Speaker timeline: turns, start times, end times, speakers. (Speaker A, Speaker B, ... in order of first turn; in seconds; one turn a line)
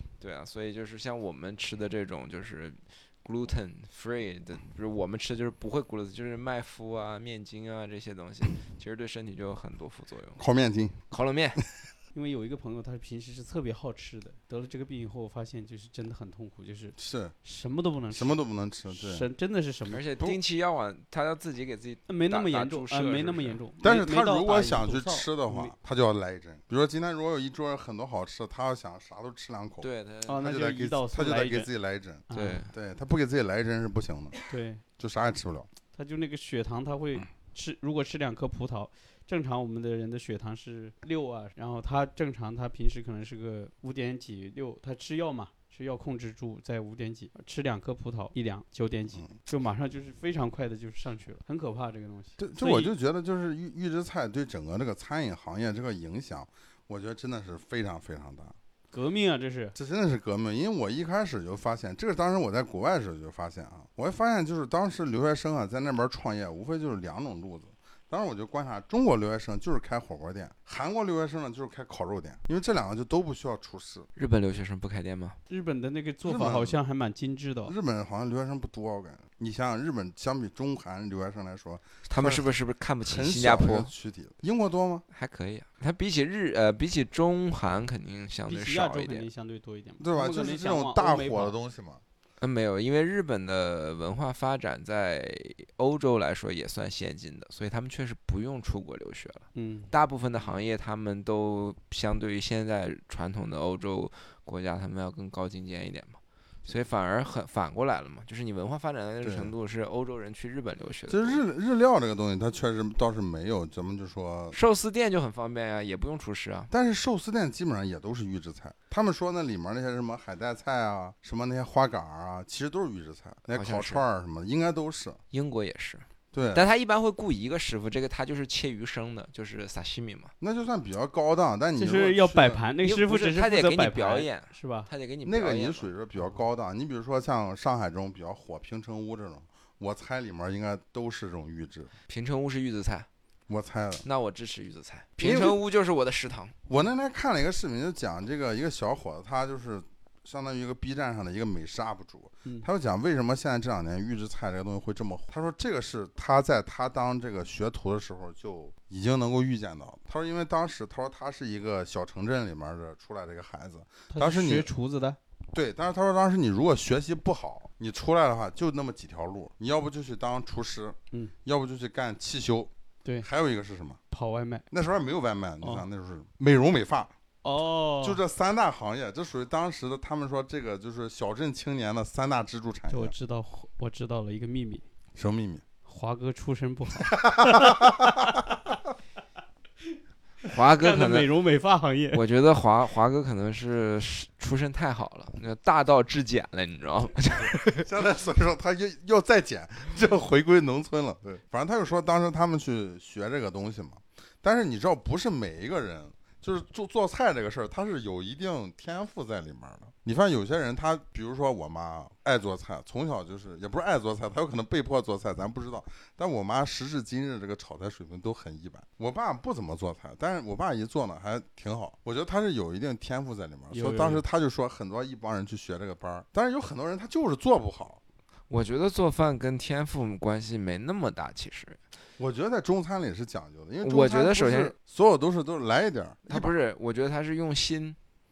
Speaker A: 0.2-10.4
Speaker B: 10.4-11.0
Speaker A: 11.1-11.6
Speaker C: 12.1-18.4
Speaker B: 17.0-17.3
Speaker B: 18.1-19.3
Speaker C: 18.9-20.0
Speaker A: 19.9-23.6
Speaker C: 22.1-25.7
Speaker B: 23.8-34.4
Speaker A: 29.8-30.4
Speaker C: 30.3-31.7
Speaker C: 32.3-32.6
Speaker A: 32.3-32.7
Speaker C: 34.5-34.8
Speaker B: 35.0-35.7
Speaker C: 36.0-52.9
Speaker B: 52.4-58.5
Speaker C: 58.9-59.8
Speaker B: 59.8-74.1
Speaker A: 74.2-75.4
Speaker C: 75.5-77.7
Speaker B: 76.2-76.8
Speaker B: 77.7-82.5
Speaker A: 82.1-83.9
Speaker B: 83.0-85.0
Speaker A: 85.1-89.3
Speaker C: 88.5-91.5
Speaker B: 90.0-92.0
Speaker A: 92.4-111.4
Speaker C: 99.5-99.9
Speaker B: 109.2-109.5
Speaker B: 111.1-114.6
Speaker A: 114.5-116.7
Speaker B: 116.7-125.2
Speaker A: 123.5-124.0
Speaker A: 125.3-130.3
Speaker B: 126.3-126.7
Speaker B: 130.4-132.7
Speaker C: 131.8-134.9
Speaker A: 132.8-135.9
Speaker B: 135.2-141.9
Speaker A: 142.1-143.1
Speaker B: 143.5-144.1
Speaker A: 144.1-146.6
Speaker B: 145.2-145.6
Speaker B: 146.7-164.7
Speaker C: 164.1-165.2
Speaker B: 165.5-172.7
Speaker B: 173.2-174.0
Speaker C: 174.1-174.7
Speaker B: 174.7-177.1
Speaker C: 175.6-175.9
Speaker C: 177.4-178.2
Speaker B: 178.0-183.1
Speaker C: 182.9-184.8
Speaker B: 185.2-185.6
Speaker C: 185.9-188.1
Speaker B: 187.1-188.4
Speaker A: 190.5-191.3
Speaker C: 190.8-192.2
Speaker A: 192.1-197.9
Speaker B: 197.4-228.0
Speaker C: 223.7-224.2
Speaker A: 228.5-231.8
Speaker B: 232.2-236.5
Speaker A: 233.8-234.7
Speaker A: 236.3-238.0